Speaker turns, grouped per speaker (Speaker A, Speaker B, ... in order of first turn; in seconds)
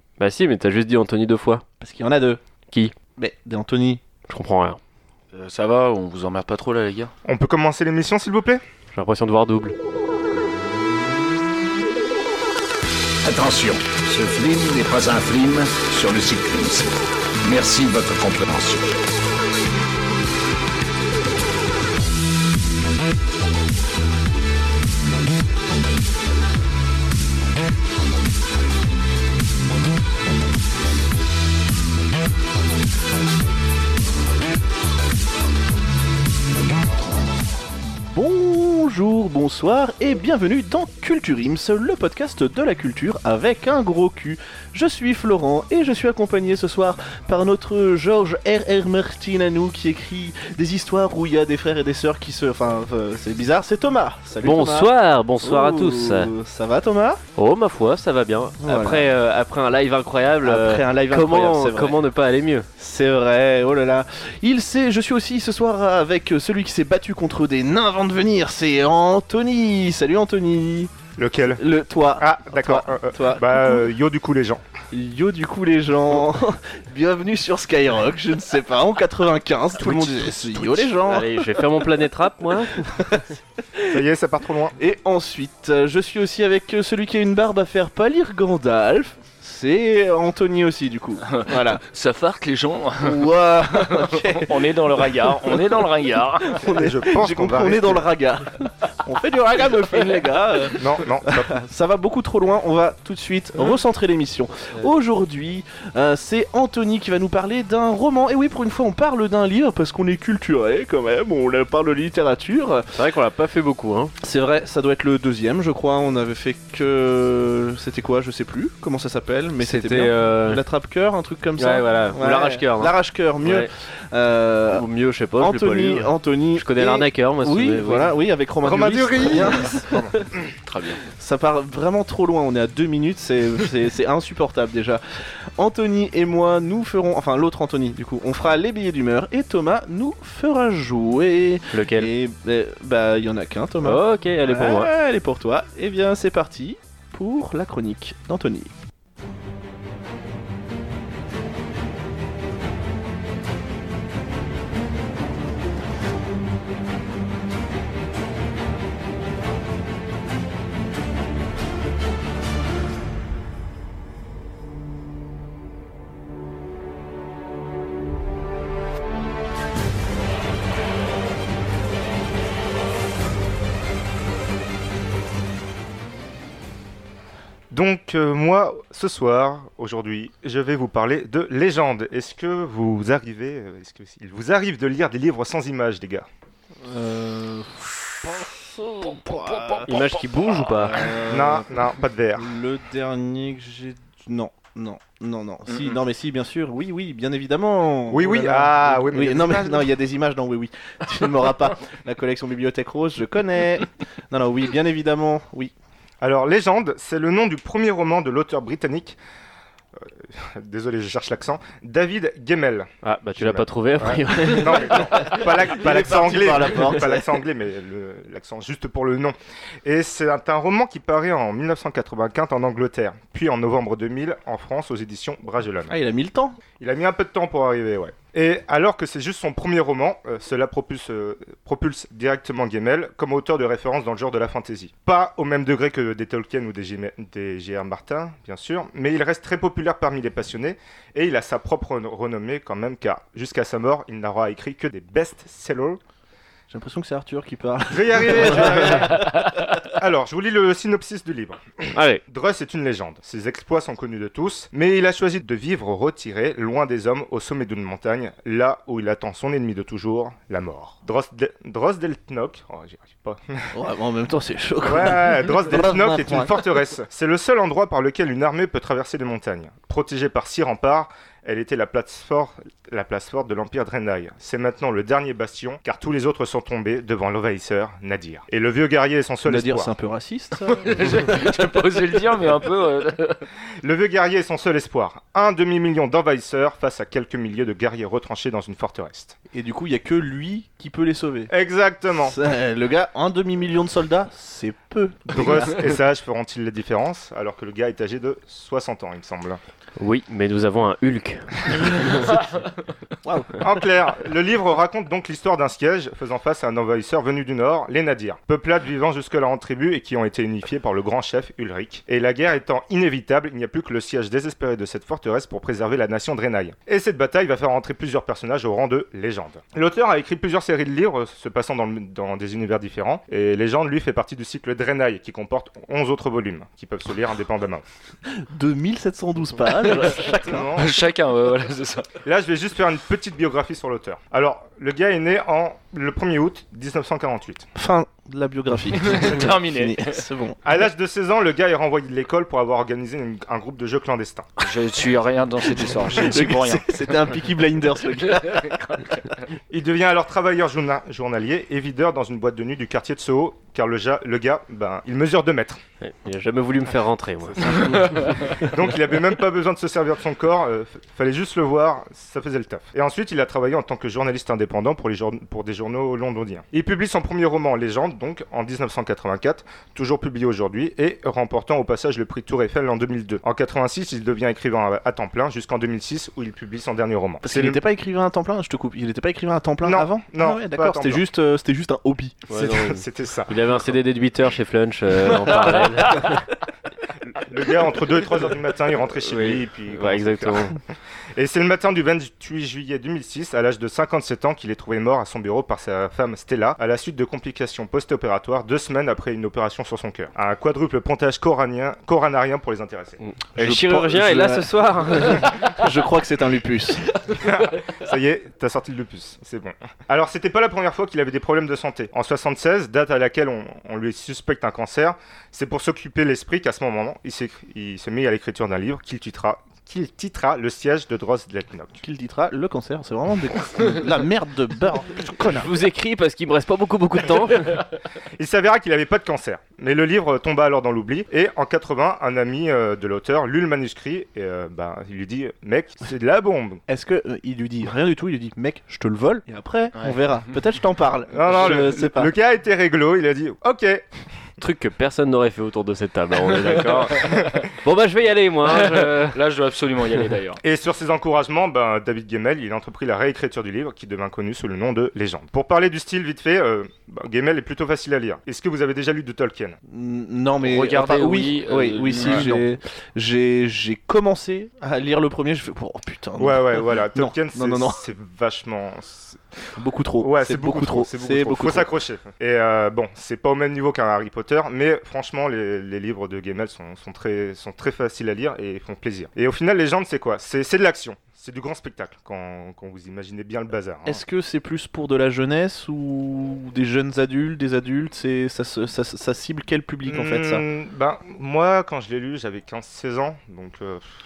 Speaker A: 0.2-1.6, 2.7-2.9, 4.3-4.8, 8.9-9.7, 54.4-56.3, 57.4-62.7, 81.0-83.1, 112.9-114.1, 119.6-120.6, 121.6-123.7, 124.7-128.1, 141.7-142.1, 143.8-144.9, 189.9-191.1, 213.0-215.0, 251.9-252.2, 300.0-301.4, 356.0-357.9, 382.5-386.4, 389.2-390.8, 403.2-405.6, 425.5-427.8, 444.6-449.3
Speaker B: 1.8-2.4, 3.1-4.0, 38.1-57.2, 58.6-59.1, 60.4-62.0, 62.8-70.9, 71.5-73.9, 74.9-81.8, 82.9-84.0, 84.8-91.8, 93.0-95.8, 96.4-112.9, 114.2-124.9, 125.4-130.3, 131.1-148.7, 186.8-191.8, 192.3-205.7, 214.5-217.4, 225.9-226.6, 246.7-249.5, 263.7-266.6, 279.4-281.5, 289.5-291.5, 292.2-295.9, 303.2-303.6, 328.3-330.7, 337.8-340.6, 345.8-348.8, 357.6-358.5, 377.4-382.4, 403.6-407.1, 422.0-425.7, 436.9-442.3, 459.9-468.0, 469.8-471.9, 484.0-490.6
Speaker C: 5.3-7.1, 91.3-96.5, 130.7-131.0, 195.7-196.0, 280.6-283.4, 329.9-330.2, 330.7-332.1, 339.0-340.2, 344.6-347.3, 348.3-349.1, 439.9-440.5, 448.6-450.6, 460.6-462.6
Speaker D: 7.2-8.6, 71.2-71.6, 72.2-74.6, 79.8-80.9, 83.9-84.8, 96.7-98.1, 100.8-101.6, 128.6-130.3, 177.7-186.3, 191.2-192.5, 198.1-199.8, 206.2-209.2, 210.0-225.9, 226.8-246.0, 247.9-263.7, 264.8-279.9, 283.8-289.4, 291.5-292.4, 295.3-299.6, 303.6-327.8, 330.2-330.9, 332.2-337.7, 340.6-344.5, 349.7-355.8, 357.5-377.8, 379.8-381.2, 382.5-383.9, 387.3-390.8, 391.3-403.2, 407.3-422.0, 428.4-436.8, 441.3-444.1, 450.6-459.8, 462.2-462.5, 466.4-469.4, 470.2-484.2, 490.1-494.1
Speaker E: 13.2-18.9